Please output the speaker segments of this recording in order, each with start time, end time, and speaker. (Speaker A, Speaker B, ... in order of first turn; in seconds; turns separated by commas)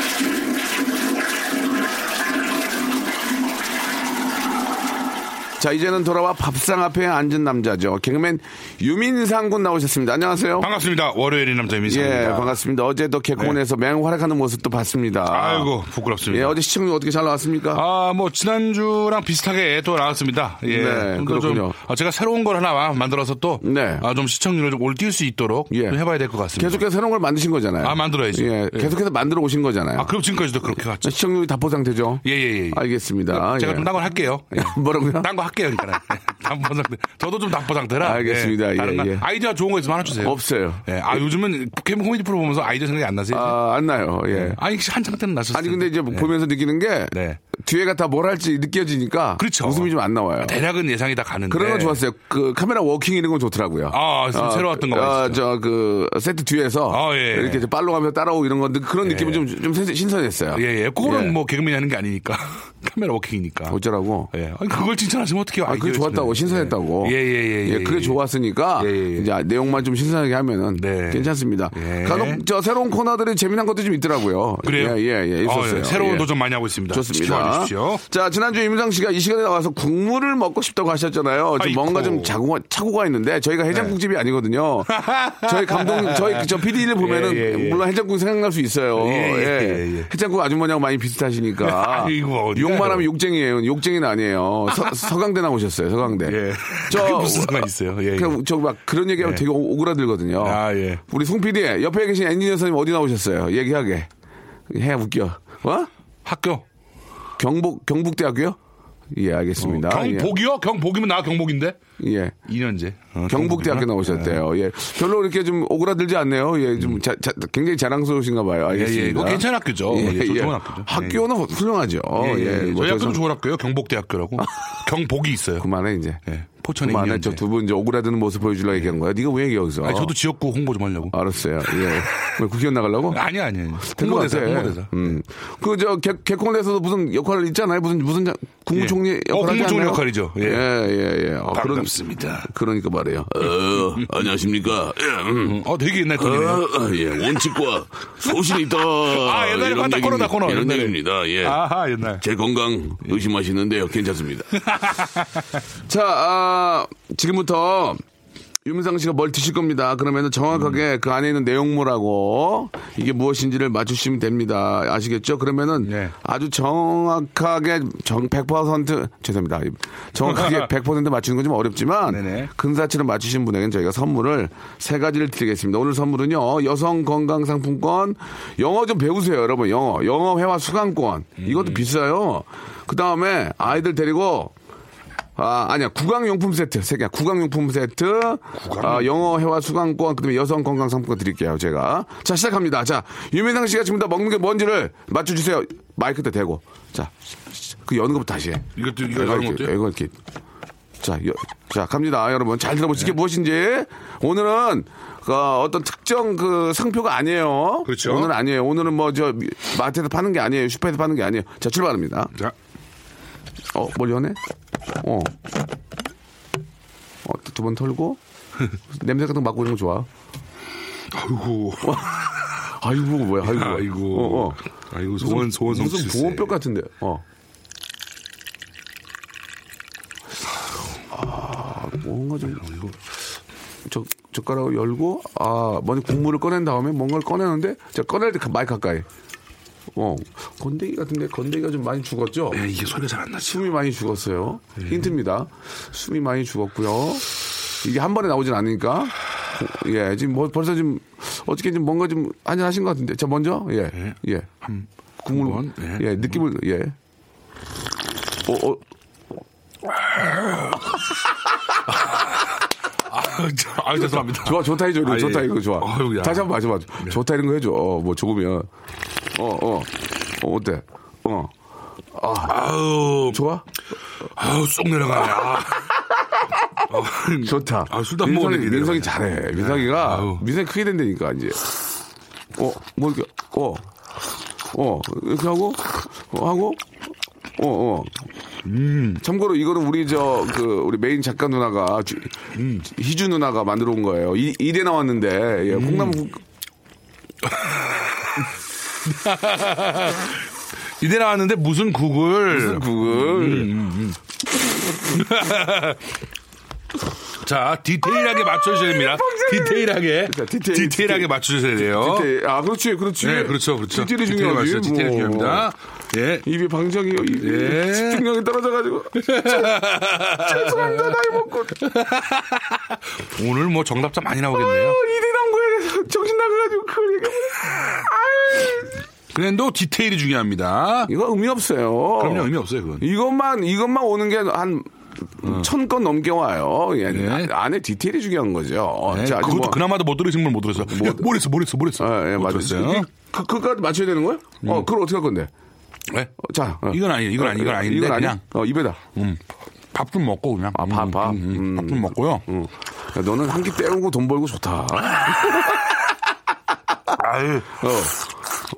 Speaker A: 5.6-10.7, Speaker B: 10.6-12.6, Speaker A: 11.9-15.7, Speaker B: 15.3-16.6, Speaker A: 16.3-17.8, Speaker B: 17.7-26.8, Speaker A: 20.6-21.8, Speaker A: 23.6-24.1, Speaker A: 25.7-26.0, Speaker A: 26.5-30.1, Speaker B: 27.8-29.0, Speaker B: 29.9-31.1, Speaker A: 31.0-34.0, Speaker B: 32.2-43.6, Speaker A: 34.5-35.3, Speaker A: 38.0-39.3, Speaker A: 40.1-40.9, Speaker A: 43.3-44.6, Speaker B: 44.3-46.3, Speaker A: 45.5-50.6, Speaker B: 47.1-47.4, Speaker B: 49.4-49.9, Speaker B: 50.4-52.0, Speaker A: 51.5-61.4, Speaker B: 53.9-55.4, Speaker B: 56.9-57.6, Speaker B: 59.0-59.5, Speaker B: 60.5-63.8, Speaker A: 63.7-64.3, Speaker B: 64.3-68.2, Speaker A: 65.7-76.3, Speaker B: 68.8-69.3, Speaker B: 70.8-72.4, Speaker B: 74.6-78.0, Speaker A: 76.9-104.1, Speaker B: 81.6-82.3, Speaker B: 84.9-87.8, Speaker B: 89.0-90.1, Speaker B: 91.6-93.1, Speaker B: 96.2-98.4, Speaker B: 99.2-99.5, Speaker B: 100.4-101.0, Speaker A: 104.7-105.9, Speaker B: 106.2-106.6, Speaker A: 107.4-108.6, Speaker A: 109.1-110.3, Speaker B: 109.6-111.8, Speaker A: 112.0-112.4, Speaker B: 112.5-114.4, Speaker A: 113.3-123.2, Speaker B: 118.7-121.2, Speaker B: 122.2-125.7, Speaker A: 125.6-126.2, Speaker B: 126.3-127.4, Speaker A: 126.8-130.1, Speaker B: 129.8-131.2, Speaker A: 131.1-133.2, Speaker B: 133.1-135.1, Speaker A: 133.8-141.9, Speaker B: 138.7-140.7, Speaker B: 141.5-142.5, Speaker A: 142.4-145.6, Speaker B: 145.4-146.7, Speaker A: 146.2-151.6, Speaker B: 148.4-152.2, Speaker A: 152.2-154.6, Speaker B: 154.6-155.4, Speaker A: 155.8-158.0, Speaker A: 158.6-184.5, Speaker B: 165.8-166.1, Speaker B: 170.2-170.7, Speaker B: 172.1-172.5, Speaker B: 181.4-181.8, Speaker A: 185.4-200.1, Speaker B: 188.6-189.1, Speaker B: 198.8-199.7, Speaker A: 201.0-212.3, Speaker B: 207.8-208.3, Speaker A: 213.7-214.4, Speaker A: 215.0-215.3, Speaker A: 217.2-218.2, Speaker A: 218.9-220.1, Speaker B: 221.1-222.6, Speaker A: 221.8-224.6, Speaker B: 223.4-226.6, Speaker A: 225.2-227.2, Speaker A: 231.1-232.7, Speaker B: 232.6-232.9, Speaker A: 233.8-239.1, Speaker A: 239.9-242.7, Speaker B: 242.5-243.7, Speaker A: 243.4-247.2, Speaker A: 247.8-254.5, Speaker B: 253.9-256.4, Speaker A: 255.2-256.9, Speaker A: 258.4-258.8, Speaker B: 259.9-261.0, Speaker B: 261.9-262.5, Speaker B: 263.1-266.5, Speaker A: 263.9-268.7, Speaker A: 269.3-271.5, Speaker A: 272.1-272.6, Speaker B: 272.5-273.4, Speaker A: 273.3-273.6, Speaker B: 274.4-276.1, Speaker B: 276.9-280.4, Speaker A: 277.4-281.7, Speaker A: 282.6-283.8, Speaker A: 284.7-286.8, Speaker A: 287.6-288.1, Speaker B: 288.6-289.2, Speaker A: 289.2-296.4, Speaker B: 292.5-292.9, Speaker B: 295.7-296.2, Speaker B: 297.4-298.5, Speaker B: 299.1-300.4, Speaker B: 301.0-304.2, Speaker A: 302.5-303.7, Speaker B: 305.1-306.0, Speaker B: 307.4-312.3, Speaker A: 308.1-311.3, Speaker A: 311.8-315.7, Speaker B: 313.2-316.4, Speaker A: 316.4-319.8, Speaker B: 317.4-318.2, Speaker B: 319.2-321.1, Speaker A: 320.4-321.8, Speaker B: 321.8-325.0, Speaker A: 324.5-329.0, Speaker B: 329.3-331.1, Speaker A: 331.1-339.8, Speaker B: 332.2-333.0, Speaker B: 337.1-337.5, Speaker B: 339.1-343.1, Speaker A: 340.8-341.3, Speaker A: 342.0-345.5, Speaker A: 346.4-349.1, Speaker B: 346.9-348.4, Speaker B: 349.9-352.4, Speaker A: 350.7-356.0, Speaker B: 357.2-357.8, Speaker A: 357.7-358.2